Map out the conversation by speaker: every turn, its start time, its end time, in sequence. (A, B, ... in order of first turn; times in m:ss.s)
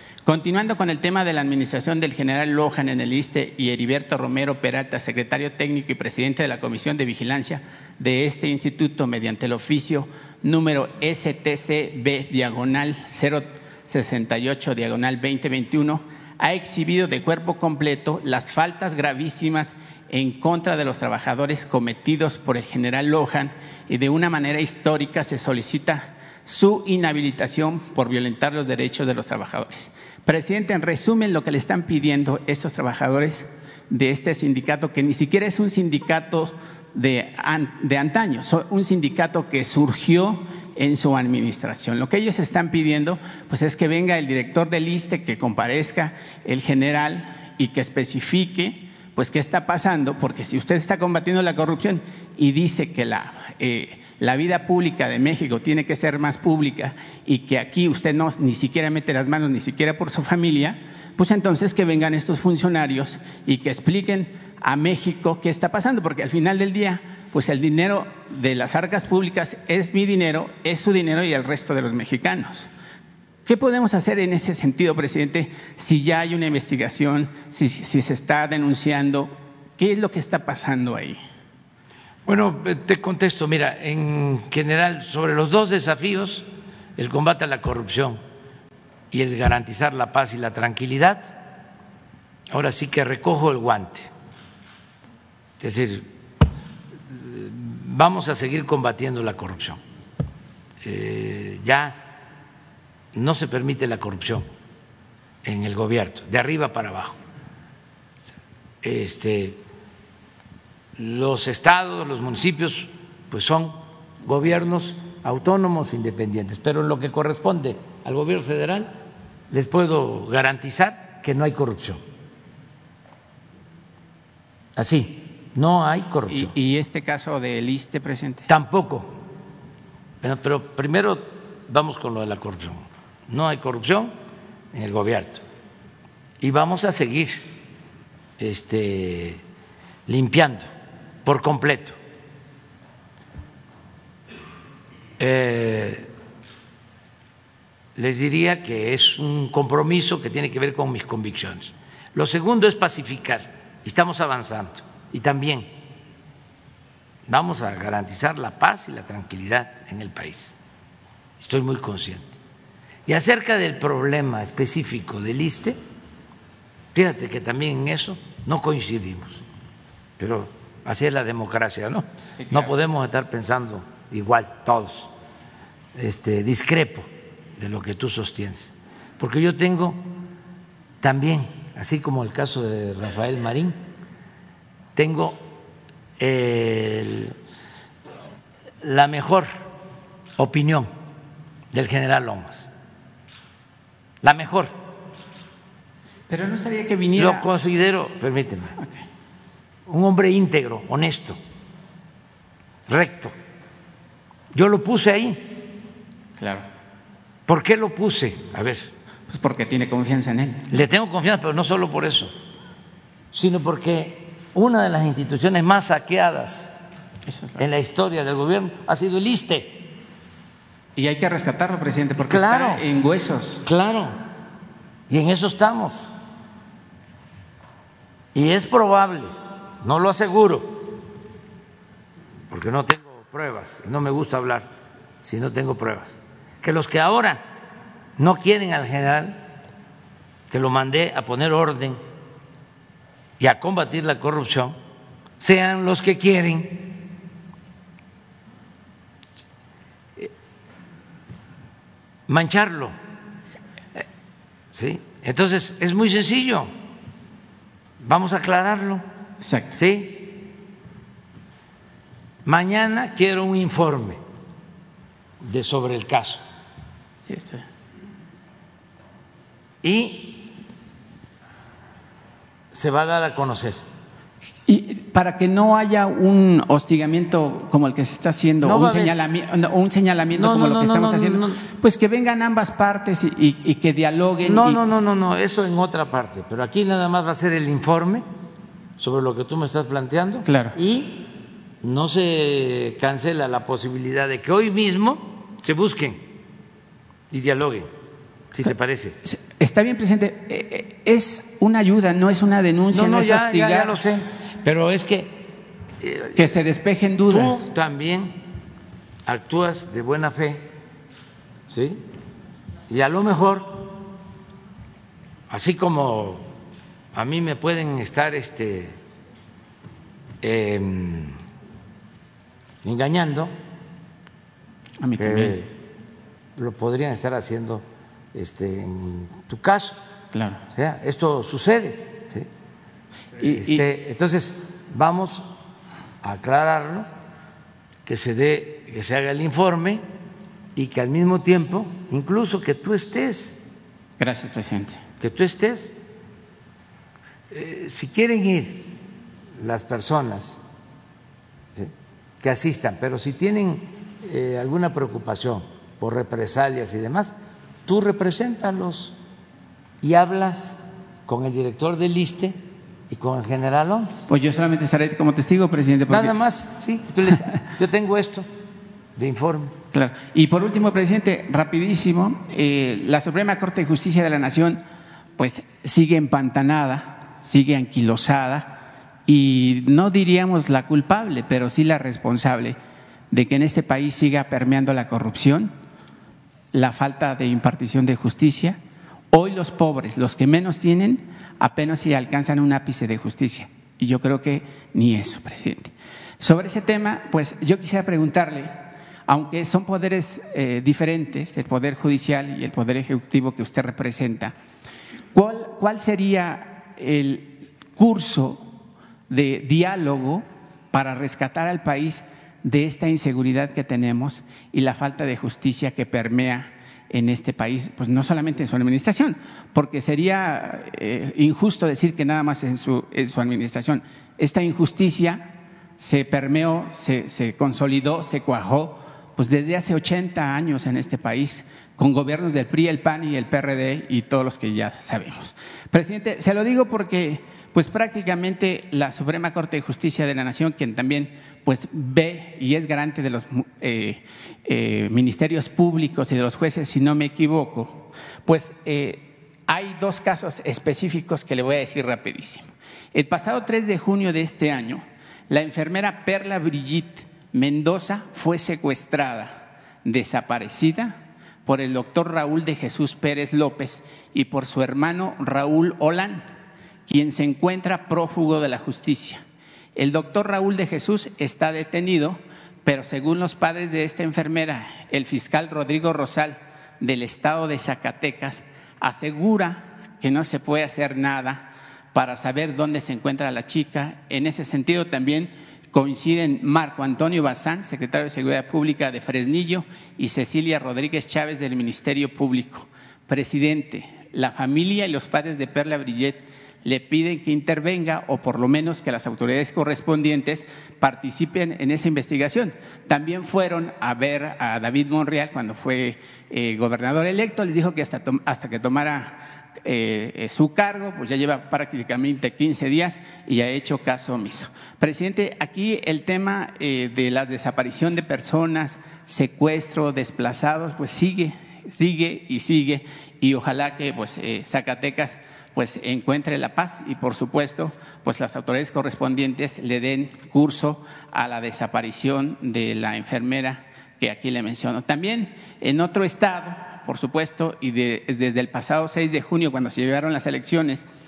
0:00.2-1:12.7 A
1:13.4-1:21.2 A
1:22.2-1:28.2 B
1:29.1-1:31.4 B
1:32.5-1:34.1 B
1:35.6-1:36.1 B
1:37.1-1:39.8 B
1:40.8-1:42.0 B
1:43.1-1:44.5 B
1:45.4-1:47.2 B
1:48.8-1:49.6 B
1:51.0-1:59.0 B
1:59.5-2:02.0 B
2:04.8-2:06.5 B
2:06.3-2:08.5 A
2:08.5-2:09.2 B
2:10.2-2:14.1 B
2:14.7-2:15.4 B
2:16.4-2:17.4 B
2:18.4-2:19.4 B
2:20.1-2:20.7 B
2:21.2-2:22.0 B
2:25.2-2:26.1 B
2:28.0-2:35.7 B
2:37.3-2:40.6 B
2:41.4-2:42.4 B
2:43.1-2:45.8 B
2:46.9-2:49.4 B
2:50.2-2:55.1 B
2:52.4-2:52.7 A
2:55.9-3:00.1 B
3:01.0-3:03.8 B
3:04.9-3:05.5 B
3:06.2-3:07.3 B
3:08.8-3:09.6 B
3:10.4-3:10.9 B
3:11.7-3:12.7 B
3:14.2-3:14.8 B
3:16.3-3:17.5 A
3:17.1-3:18.8 B
3:18.8-3:19.0 A
3:19.9-3:21.4 B
3:22.9-3:23.3 B
3:24.5-3:25.6 B
3:26.4-3:26.6 A
3:27.5-3:28.9 B
3:29.3-3:30.6 A
3:30.7-3:32.3 B
3:33.3-3:36.7 B
3:37.3-3:37.6 A
3:37.6-3:39.8 B
3:41.0-3:43.6 A
3:42.2-3:42.8 B
3:43.6-3:44.2 B
3:45.1-3:46.1 B
3:48.3-3:50.9 B
3:52.5-3:57.4 B
3:58.2-3:59.4 B
4:00.5-4:02.0 B
4:03.4-4:04.8 B
4:05.4-4:07.0 B
4:12.3-4:13.0 B
4:14.7-4:16.7 B
4:18.0-4:19.0 B
4:19.4-4:19.8 A
4:19.8-4:20.4 B
4:22.4-4:24.2 B
4:25.4-4:26.4 B
4:27.2-4:27.6 A
4:29.8-4:30.5 B
4:32.7-4:33.8 B
4:34.7-4:44.8 A
4:38.6-4:39.2 B
4:40.3-4:41.6 B
4:44.4-4:48.3 B
4:49.0-4:51.3 B
4:50.4-4:50.8 A
4:51.8-4:56.3 B
4:57.3-4:57.9 B
4:58.5-4:59.2 B
4:59.2-5:04.0 A
5:02.9-5:05.5 B
5:06.0-5:06.6 B
5:06.3-5:07.7 A
5:07.3-5:08.4 B
5:09.2-5:10.7 B
5:11.7-5:12.0 B
5:12.9-5:14.0 B
5:15.5-5:16.5 B
5:17.1-5:19.0 B
5:20.4-5:21.4 B
5:22.8-5:23.5 B
5:25.0-5:25.6 A
5:25.2-5:25.7 B
5:26.6-5:30.0 B
5:30.3-5:30.6 A
5:30.7-5:32.5 B
5:33.4-5:33.8 A
5:33.5-5:35.5 B
5:36.2-5:37.1 B
5:38.0-5:40.0 B
5:40.7-5:43.6 B
5:44.2-5:45.0 A
5:45.2-5:46.0 B
5:47.5-5:49.0 B
5:49.6-5:50.6 B
5:51.7-5:57.4 B
5:57.9-5:59.2 B
6:00.0-6:04.3 B
6:04.3-6:06.4 A
6:06.1-6:08.5 B
6:09.2-6:09.7 B
6:09.9-6:14.8 A
6:15.4-6:22.8 A
6:23.3-6:25.7 A
6:26.7-6:28.8 A
6:29.3-6:44.5 A
6:45.3-6:48.7 A
6:49.3-7:46.4 A
7:47.0-7:49.4 A
7:49.9-9:01.1 A